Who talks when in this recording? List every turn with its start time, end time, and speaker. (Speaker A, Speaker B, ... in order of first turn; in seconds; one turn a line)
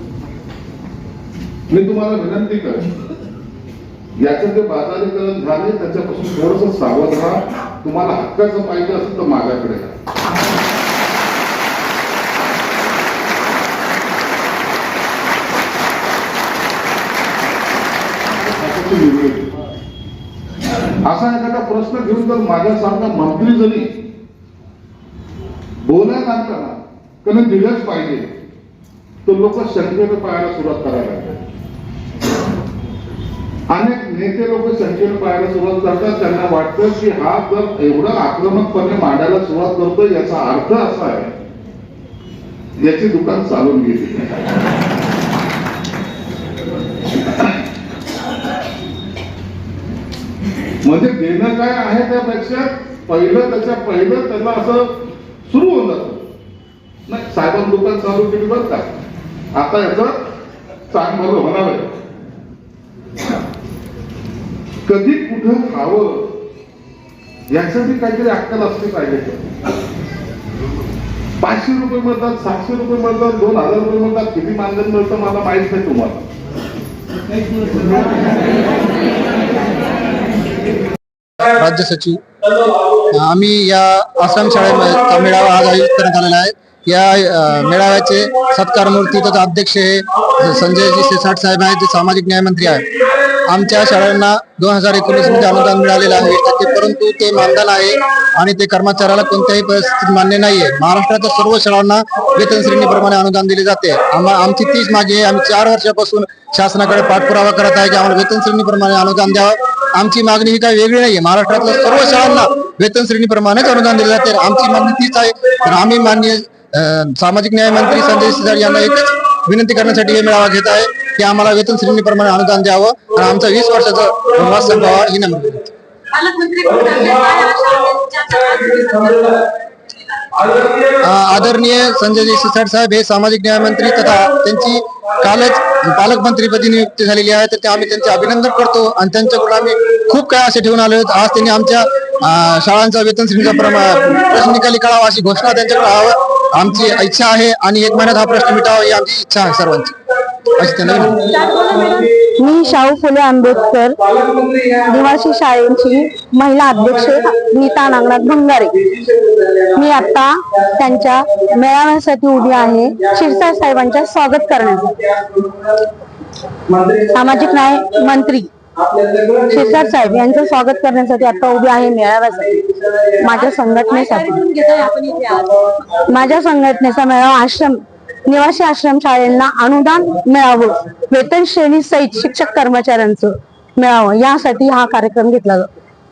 Speaker A: 1.7-2.9
Speaker A: 4.2-9.9
Speaker A: 18.4-19.5
Speaker A: 21.0-23.9
Speaker A: 25.8-28.3
Speaker A: 29.2-31.4
Speaker A: 33.7-41.3
Speaker A: 42.8-44.4
Speaker A: 50.8-54.9
Speaker A: 55.5-56.2
Speaker A: 57.1-58.9
Speaker A: 59.5-60.2
Speaker A: 60.9-61.9
Speaker A: 64.8-66.3
Speaker A: 67.5-69.5
Speaker A: 71.4-76.2
Speaker B: 81.4-82.2
Speaker B: 83.1-125.6
Speaker C: 126.1-129.4
Speaker B: 130.6-151.3
Speaker C: 151.3-152.2
Speaker D: 152.2-158.9
Speaker D: 159.6-165.1
Speaker D: 167.0-168.5
Speaker D: 169.0-174.4
Speaker C: 173.4-175.9
Speaker D: 175.9-185.7